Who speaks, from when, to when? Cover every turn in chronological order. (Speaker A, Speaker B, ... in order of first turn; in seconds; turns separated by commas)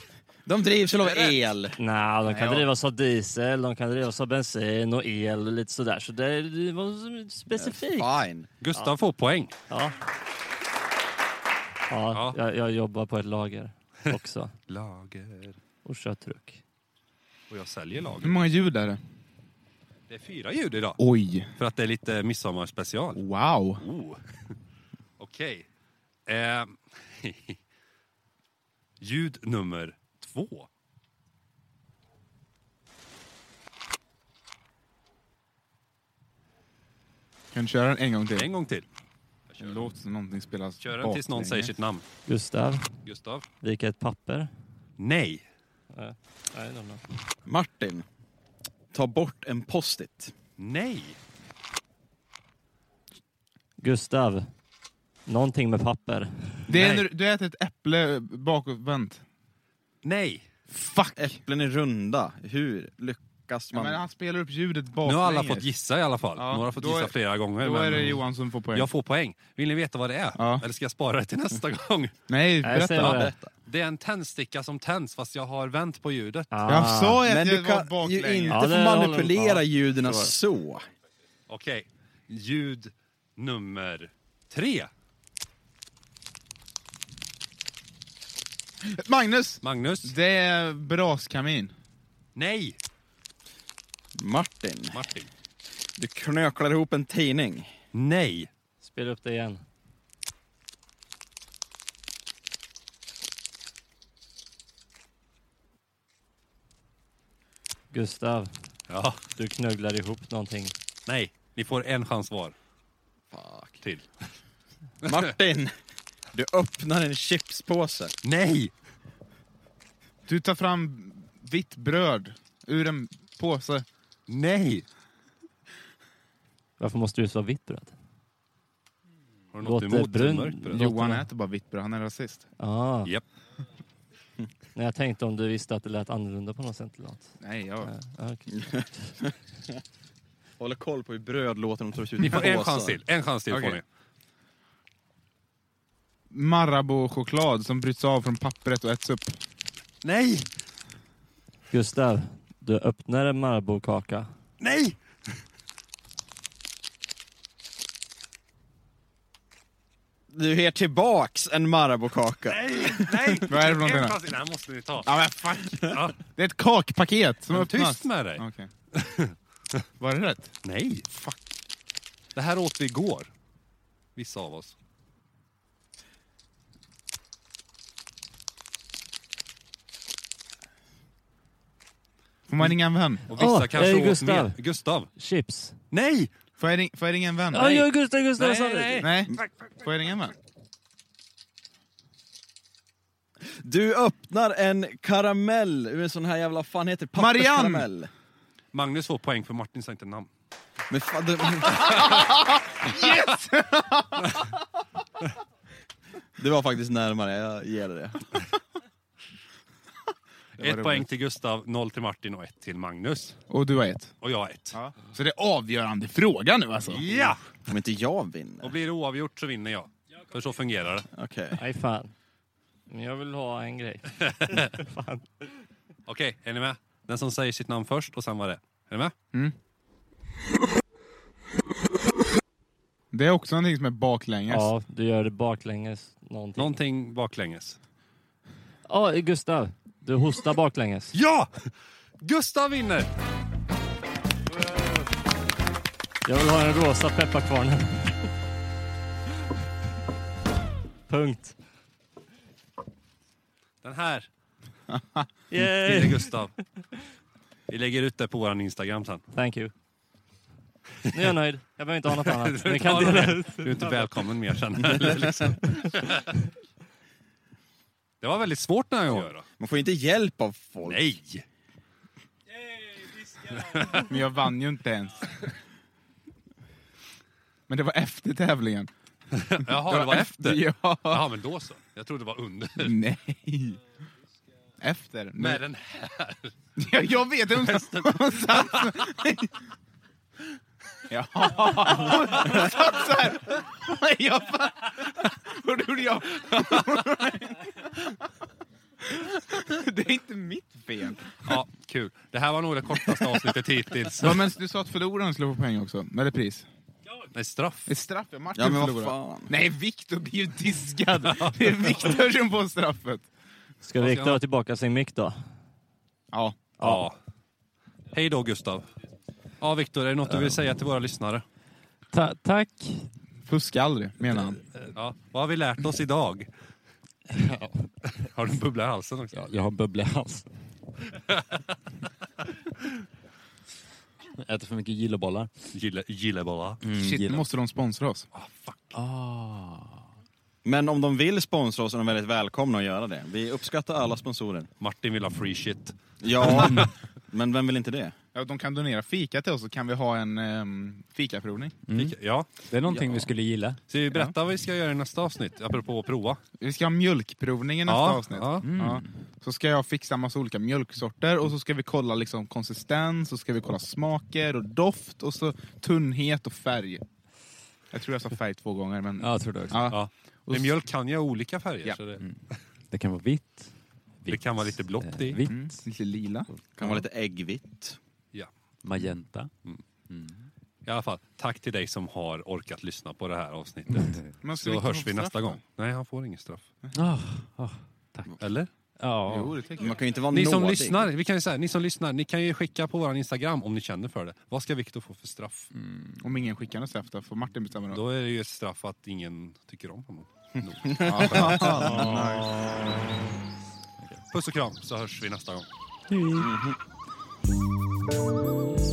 Speaker A: 0.5-2.6, Speaker B: 1.8-8.1, Speaker A: 7.5-8.5, Speaker C: 8.6-9.5, Speaker B: 9.7-10.0, Speaker B: 11.9-14.5, Speaker C: 12.1-12.4, Speaker C: 14.7-15.6, Speaker B: 15.8-16.6, Speaker C: 17.5-18.4, Speaker D: 18.2-19.0, Speaker C: 20.1-21.0, Speaker D: 21.0-21.5, Speaker C: 21.6-23.2, Speaker D: 23.1-23.8, Speaker C: 23.8-24.2, Speaker C: 25.2-25.6, Speaker C: 26.3-27.6, Speaker C: 29.0-30.7, Speaker D: 37.5-38.5, Speaker C: 38.3-38.8, Speaker C: 39.5-39.9, Speaker D: 39.6-41.7, Speaker C: 40.8-42.0, Speaker B: 42.3-43.0, Speaker C: 43.0-43.5, Speaker B: 43.6-44.5, Speaker C: 45.0-45.4, Speaker B: 45.9-47.0, Speaker A: 47.5-48.0, Speaker A: 48.9-50.3, Speaker C: 50.6-51.2, Speaker B: 53.8-54.5, Speaker B: 55.2-56.6, Speaker D: 56.7-59.2, Speaker C: 56.7-57.0, Speaker C: 60.0-60.4, Speaker D: 60.7-61.4, Speaker A: 61.2-64.0, Speaker D: 63.7-65.7, Speaker C: 65.0-72.1, Speaker D: 66.3-68.9, Speaker D: 70.4-70.6, Speaker D: 72.3-73.2, Speaker B: 72.6-73.3, Speaker C: 73.0-76.5, Speaker A: 73.0-73.5, Speaker B: 76.5-77.2, Speaker D: 76.6-78.6, Speaker A: 77.2-80.8, Speaker B: 78.5-80.3, Speaker C: 81.5-84.9, Speaker D: 88.8-91.7, Speaker C: 89.6-90.1, Speaker C: 92.3-92.8, Speaker A: 94.1-95.0, Speaker C: 94.9-95.3, Speaker A: 96.0-97.7, Speaker C: 97.9-98.5, Speaker B: 98.8-99.6, Speaker B: 107.9-108.5, Speaker C: 108.9-109.3, Speaker B: 109.3-110.7, Speaker C: 111.1-112.5, Speaker A: 113.3-113.8, Speaker C: 113.8-114.1, Speaker A: 115.0-115.7, Speaker A: 116.3-118.1, Speaker C: 118.2-118.7, Speaker D: 120.2-123.8, Speaker C: 124.3-124.8, Speaker B: 126.8-127.9, Speaker C: 129.5-130.9, Speaker B: 129.6-131.3, Speaker D: 130.7-132.5, Speaker B: 132.6-133.1, Speaker B: 134.7-139.1, Speaker D: 137.4-137.9, Speaker A: 138.6-139.3, Speaker A: 140.6-143.0, Speaker C: 142.2-143.8, Speaker D: 143.5-143.8, Speaker D: 146.3-149.4, Speaker C: 150.0-150.5, Speaker B: 151.7-154.3, Speaker C: 154.6-155.0, Speaker A: 160.3-163.3, Speaker C: 162.5-165.2, Speaker D: 163.4-164.2, Speaker D: 165.0-168.7, Speaker C: 165.8-166.2, Speaker C: 167.5-169.8, Speaker D: 170.0-170.5, Speaker C: 170.6-171.0, Speaker D: 171.1-171.4, Speaker C: 172.3-173.3, Speaker C: 174.2-174.7, Speaker D: 182.5-183.2, Speaker C: 183.3-185.1, Speaker B: 183.3-184.6, Speaker B: 185.2-185.8, Speaker C: 185.9-186.3, Speaker D: 186.6-187.9, Speaker B: 187.5-189.2, Speaker C: 188.4-189.1, Speaker D: 189.0-190.3, Speaker A: 193.4-198.1, Speaker D: 197.2-197.9, Speaker C: 198.7-200.3, Speaker A: 200.9-202.1, Speaker D: 201.8-204.5, Speaker A: 206.4-208.3, Speaker C: 210.6-213.4, Speaker D: 210.6-211.1, Speaker D: 213.5-214.1, Speaker C: 214.2-214.8, Speaker D: 214.7-217.0, Speaker C: 216.9-217.4, Speaker A: 217.7-218.7, Speaker C: 218.6-221.1, Speaker A: 221.1-221.6, Speaker B: 221.5-222.1, Speaker B: 222.9-225.3, Speaker C: 226.1-229.1, Speaker D: 233.1-234.7, Speaker B: 234.5-236.7, Speaker C: 236.6-237.8, Speaker B: 238.9-241.1, Speaker C: 241.1-243.1, Speaker B: 246.2-248.3, Speaker B: 251.1-251.5, Speaker C: 253.8-254.3, Speaker D: 254.9-255.3, Speaker B: 255.5-256.3, Speaker C: 255.7-256.6, Speaker C: 257.7-259.2, Speaker B: 259.3-259.7, Speaker B: 261.1-264.1, Speaker C: 262.2-266.4, Speaker C: 268.2-269.4, Speaker A: 269.1-271.0, Speaker C: 270.9-271.4, Speaker C: 273.3-274.0, Speaker D: 273.9-275.5, Speaker D: 277.7-278.9, Speaker C: 279.3-283.0, Speaker D: 279.6-281.2, Speaker D: 282.8-283.8, Speaker D: 284.8-285.6, Speaker C: 285.4-286.7, Speaker D: 286.8-289.5, Speaker C: 287.6-288.9, Speaker D: 291.1-298.3, Speaker D: 299.0-301.5, Speaker C: 301.4-304.5, Speaker D: 304.2-306.7, Speaker C: 307.3-307.9, Speaker D: 307.9-313.3, Speaker A: 308.5-309.5, Speaker C: 311.3-312.1, Speaker B: 313.8-315.4, Speaker C: 314.0-314.4, Speaker D: 316.3-316.6, Speaker C: 316.8-317.1, Speaker C: 318.1-318.9, Speaker C: 319.6-321.4, Speaker E: 322.1-323.1, Speaker D: 323.4-324.6, Speaker C: 324.9-326.5, Speaker E: 327.3-327.9, Speaker C: 328.0-329.5, Speaker E: 329.3-330.5, Speaker C: 331.3-331.6, Speaker E: 334.4-335.5, Speaker C: 335.7-336.8, Speaker E: 336.8-337.5, Speaker D: 336.9-338.3, Speaker C: 338.3-339.0, Speaker E: 338.9-340.0, Speaker A: 340.6-344.7, Speaker C: 344.8-346.9, Speaker A: 346.2-348.1, Speaker D: 348.3-351.7, Speaker E: 351.9-353.8, Speaker C: 351.9-352.5, Speaker A: 352.9-353.2, Speaker C: 353.9-356.4, Speaker D: 356.6-367.0, Speaker C: 357.9-358.7, Speaker E: 358.6-359.1, Speaker D: 367.9-370.8, Speaker E: 369.2-369.9, Speaker C: 369.9-372.2, Speaker E: 372.2-373.7, Speaker E: 374.2-375.8, Speaker C: 374.3-375.4, Speaker D: 375.4-376.5, Speaker A: 376.8-378.0, Speaker E: 378.8-379.5, Speaker E: 380.1-380.5, Speaker C: 380.9-386.7, Speaker E: 383.9-384.2, Speaker D: 384.4-385.6, Speaker E: 386.9-388.4, Speaker C: 388.4-388.7, Speaker E: 389.0-389.5, Speaker D: 389.3-390.0, Speaker A: 389.7-391.1, Speaker C: 390.3-395.7, Speaker E: 395.7-396.2, Speaker D: 396.2-398.0, Speaker C: 397.9-402.5, Speaker A: 400.8-402.0, Speaker D: 401.0-402.6, Speaker B: 402.0-402.7, Speaker C: 404.3-405.7, Speaker E: 406.1-406.5, Speaker A: 406.4-406.8